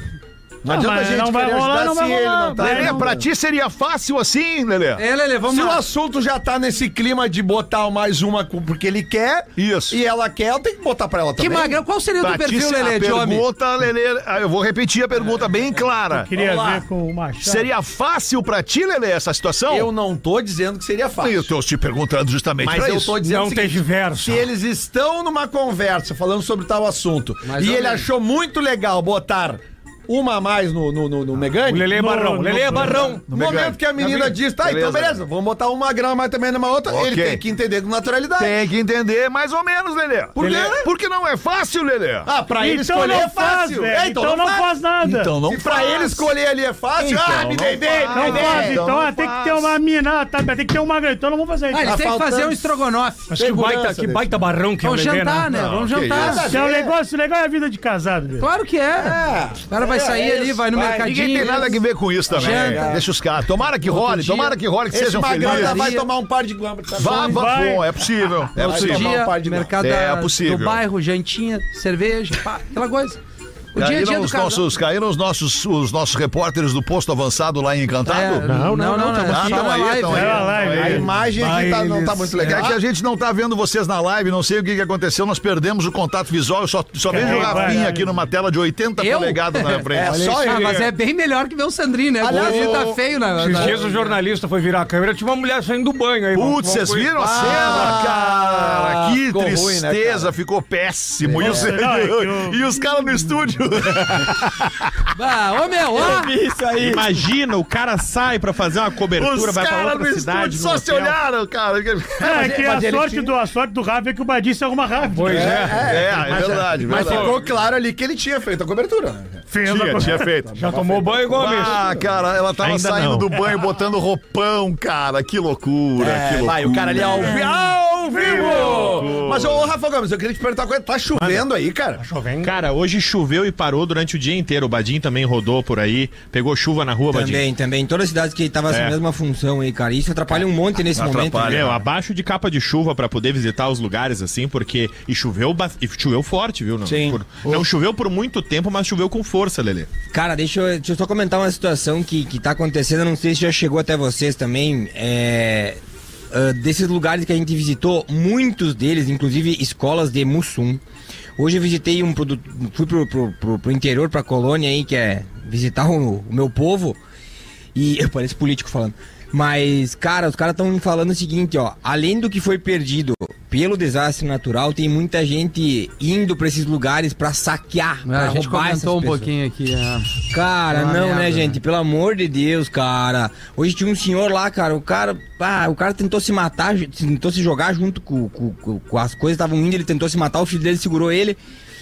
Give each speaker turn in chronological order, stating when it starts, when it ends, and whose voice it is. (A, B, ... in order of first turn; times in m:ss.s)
0:00.6-0:03.3 A
0:00.7-0:03.1 B
0:02.6-0:05.0 C
0:05.0-0:05.8 D
0:05.5-0:11.8 A
0:09.6-0:10.0 C
0:11.4-0:13.4 D
0:12.2-0:16.3 C
0:16.1-0:17.7 B
0:16.3-0:16.8 A
0:17.4-0:19.9 C
0:19.7-0:21.4 A
0:21.2-0:23.2 C
0:22.6-0:23.1 E
0:22.7-0:31.9 A
0:23.2-0:24.5 F
0:27.4-0:28.1 D
0:31.6-0:33.3 F
0:31.9-0:33.1 B
0:32.8-0:38.6 A
0:33.3-0:35.2 C
0:36.9-0:37.4 C
0:38.4-0:42.3 C
0:40.4-0:40.8 A
0:40.4-0:40.7 F
0:42.2-0:44.7 A
0:42.6-0:45.3 B
0:45.0-0:46.3 C
0:45.4-0:48.9 A
0:47.0-0:49.7 C
0:48.1-0:52.0 B
0:51.7-0:53.9 D
0:51.8-0:52.7 A
0:53.3-0:55.5 F
0:53.4-0:54.3 A
0:54.8-0:56.5 D
0:55.5-0:56.4 C
0:56.0-0:56.9 A
0:56.5-0:58.5 B
0:58.4-1:03.0 D
0:59.0-1:01.3 A
1:00.9-1:05.9 C
1:02.3-1:03.0 A
1:03.8-1:04.6 D
1:04.9-1:07.6 A
1:05.3-1:06.1 D
1:07.0-1:09.2 C
1:07.1-1:07.9 B
1:08.5-1:09.7 A
1:08.6-1:13.2 D
1:09.8-1:10.8 C
1:13.7-1:14.7 D
1:13.7-1:18.4 C
1:18.0-1:20.5 D
1:18.4-1:19.7 E
1:19.2-1:21.1 C
1:20.1-1:21.1 B
1:20.4-1:22.8 A
1:20.8-1:22.5 F
1:22.3-1:22.6 D
1:22.4-1:30.3 C
1:27.1-1:28.1 B
1:29.0-1:33.8 D
1:29.9-1:30.8 A
1:30.1-1:30.7 F
1:32.2-1:32.9 A
1:32.3-1:33.0 C
1:33.4-1:37.5 F
1:33.5-1:34.0 A
1:36.3-1:44.9 C
1:37.1-1:40.3 A
1:41.2-1:41.7 A
1:41.4-1:42.6 B
1:45.1-1:46.4 D
1:46.0-1:51.2 E
1:46.7-1:47.0 G
1:49.2-1:52.5 C
1:52.2-1:55.8 B
1:52.3-1:53.2 A
1:55.2-1:57.3 F
1:55.2-1:59.4 A
1:55.8-1:57.3 C
1:56.8-1:57.2 E
1:59.5-2:00.4 B
1:59.6-2:00.5 C
2:00.3-2:02.1 A
2:00.6-2:01.8 F
2:01.3-2:07.4 C
2:02.6-2:03.3 E
2:06.0-2:12.0 A
2:08.3-2:08.8 F
2:08.4-2:09.6 C
2:11.1-2:11.4 E
2:12.0-2:12.5 F
2:12.4-2:17.4 E
2:17.1-2:21.7 G
2:18.7-2:19.0 E
2:20.9-2:21.8 C
2:21.4-2:29.9 E
2:26.9-2:27.2 A
2:30.1-2:35.8 G
2:36.3-2:40.8 G
2:41.4-2:47.0 G
2:47.7-2:59.3 G
2:58.0-3:01.6 D
3:00.3-3:11.4 G